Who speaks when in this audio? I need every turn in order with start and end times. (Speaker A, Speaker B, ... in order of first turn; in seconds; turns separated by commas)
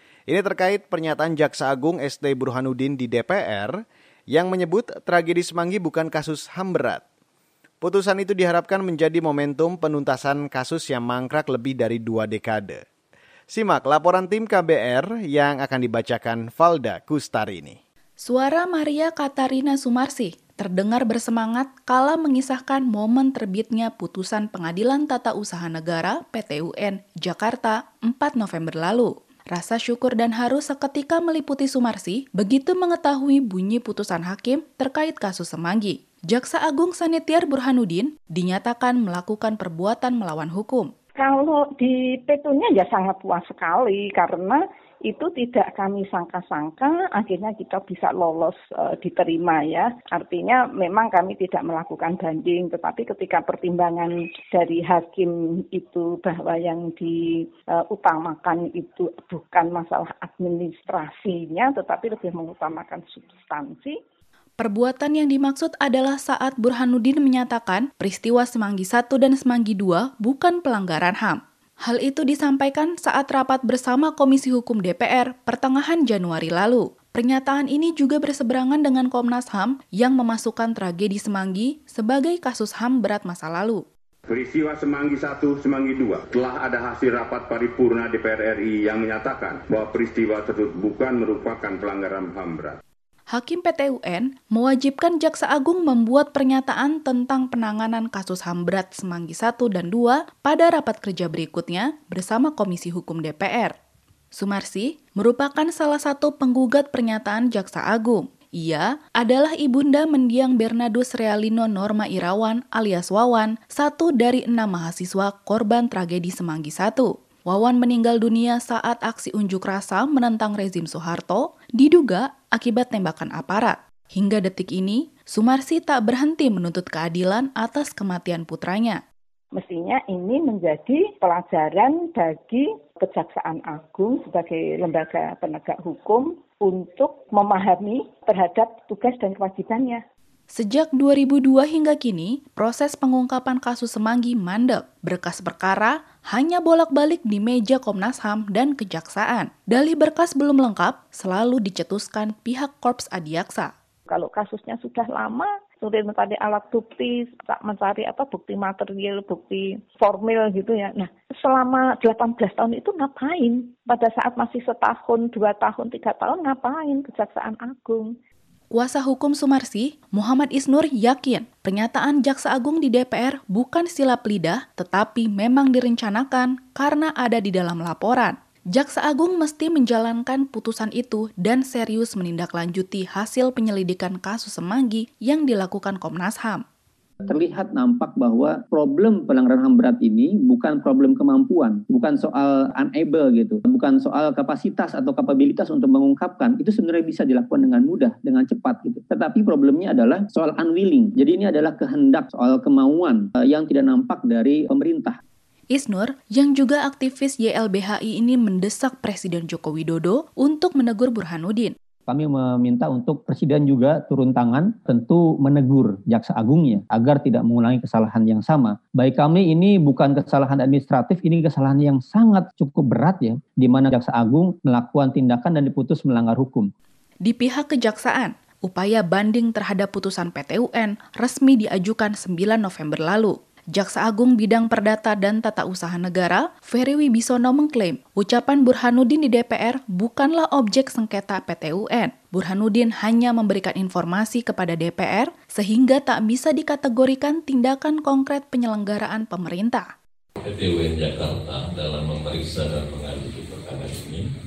Speaker A: 0.3-3.8, Speaker A: 4.3-7.0, Speaker A: 7.8-12.8, Speaker A: 13.5-17.8, Speaker B: 18.2-40.9, Speaker C: 41.1-57.2, Speaker C: 57.7-64.0, Speaker B: 64.6-83.8, Speaker D: 84.4-92.8, Speaker B: 93.3-103.7, Speaker B: 104.3-129.0, Speaker C: 129.5-140.0, Speaker B: 140.5-153.7, Speaker C: 154.1-168.1, Speaker B: 168.7-186.6, Speaker E: 187.2-205.2, Speaker B: 205.7-211.7, Speaker E: 212.1-226.7, Speaker B: 227.2-249.9, Speaker F: 250.4-254.2